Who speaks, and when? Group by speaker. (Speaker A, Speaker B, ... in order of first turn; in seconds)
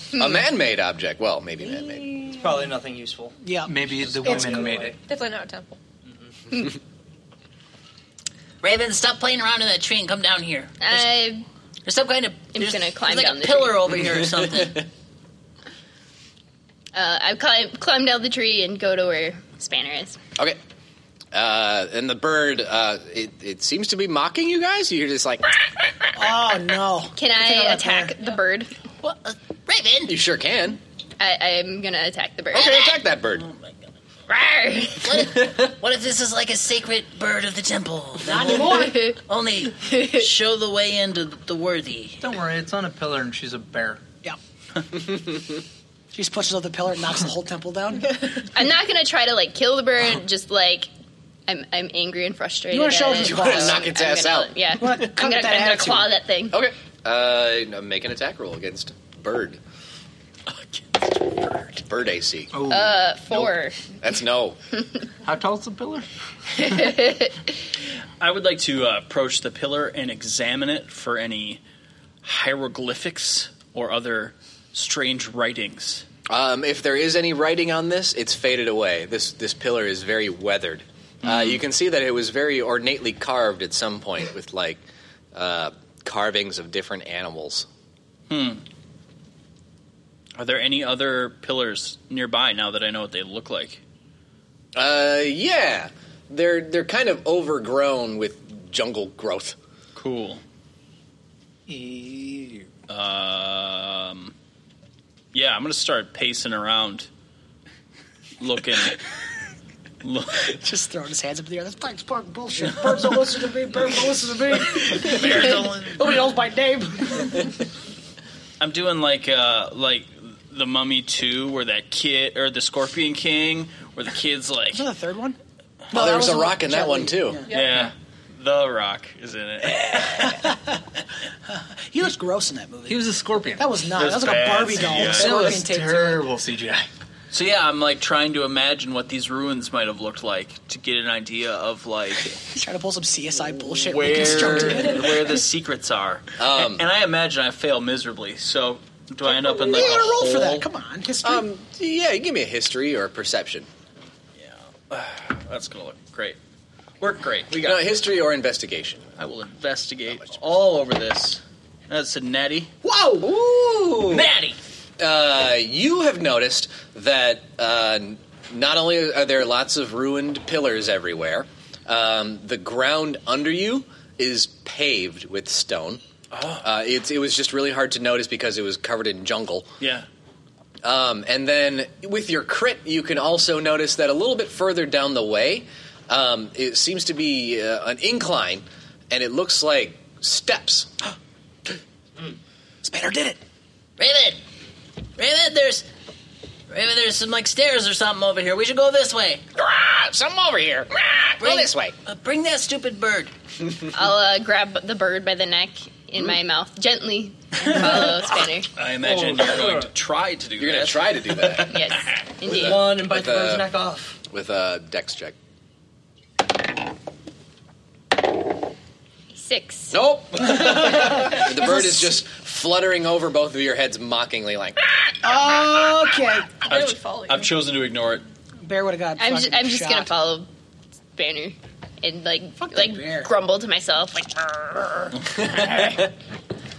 Speaker A: 0.2-2.3, 21.3-25.5, 30.1-30.8, 32.5-33.5, 53.2-54.5, 56.5-59.6, 61.9-62.5, 64.0-64.6, 76.3-84.8, 85.3-87.7, 94.8-99.6, 125.9-127.4, 146.4-146.8, 151.2-153.7, 157.5-159.2, 163.2-164.3, 165.0-176.0, 176.6-179.7, 180.8-190.9, 199.6-201.9, 210.6-211.7, 212.5-213.7, 214.3-215.3, 219.9-224.8, 235.4-236.1
Speaker B: 2.0-2.6, 3.4-4.7, 26.1-28.1, 38.2-39.0, 46.1-48.4, 52.7-53.9, 54.8-56.1, 110.5-117.6, 124.7-125.4, 125.9-127.5, 130.2-130.8, 131.5-136.2, 142.5-145.4, 149.2-151.5, 162.8-163.3, 192.8-193.4, 220.4-222.1, 225.2-226.7, 228.6-230.1, 232.6-233.3
Speaker C: 2.3-5.0, 6.1-6.3, 209.0-209.9, 212.4-214.2
Speaker D: 3.6-5.0, 42.2-44.0, 62.5-63.5, 65.2-66.1, 66.6-67.0, 101.7-102.7, 132.9-136.9
Speaker E: 4.9-5.8, 127.5-127.8, 226.7-227.5
Speaker F: 8.6-10.8, 11.9-14.9, 29.0-30.2, 35.0-42.2, 194.0-194.4, 195.2-195.8, 196.7-199.4, 201.4-203.3
Speaker G: 10.8-11.4, 12.5-13.9, 16.9-20.2, 27.2-28.7, 31.2-33.0, 34.3-35.1, 38.4-39.2, 39.9-40.3, 48.4-50.9, 51.5-56.6, 62.7-63.8, 66.6-67.4, 203.9-208.7, 211.7-212.8, 219.3-220.0, 229.2-230.5, 231.2-234.3
Speaker H: 60.5-61.8, 68.2-71.6, 72.2-76.0, 81.2-81.6, 88.3-88.6, 90.4-93.8, 100.0-100.4, 102.9-104.3, 105.3-107.1, 108.4-109.0, 110.0-110.5, 115.0-116.2, 118.6-124.9, 127.5-130.4, 134.0-135.6, 137.3-142.4, 143.8-150.7, 154.4-156.4, 157.0-157.9, 159.2-162.7, 164.1-164.6, 176.3-176.6, 179.8-180.1, 208.8-212.2, 226.7-228.2, 235.2-236.1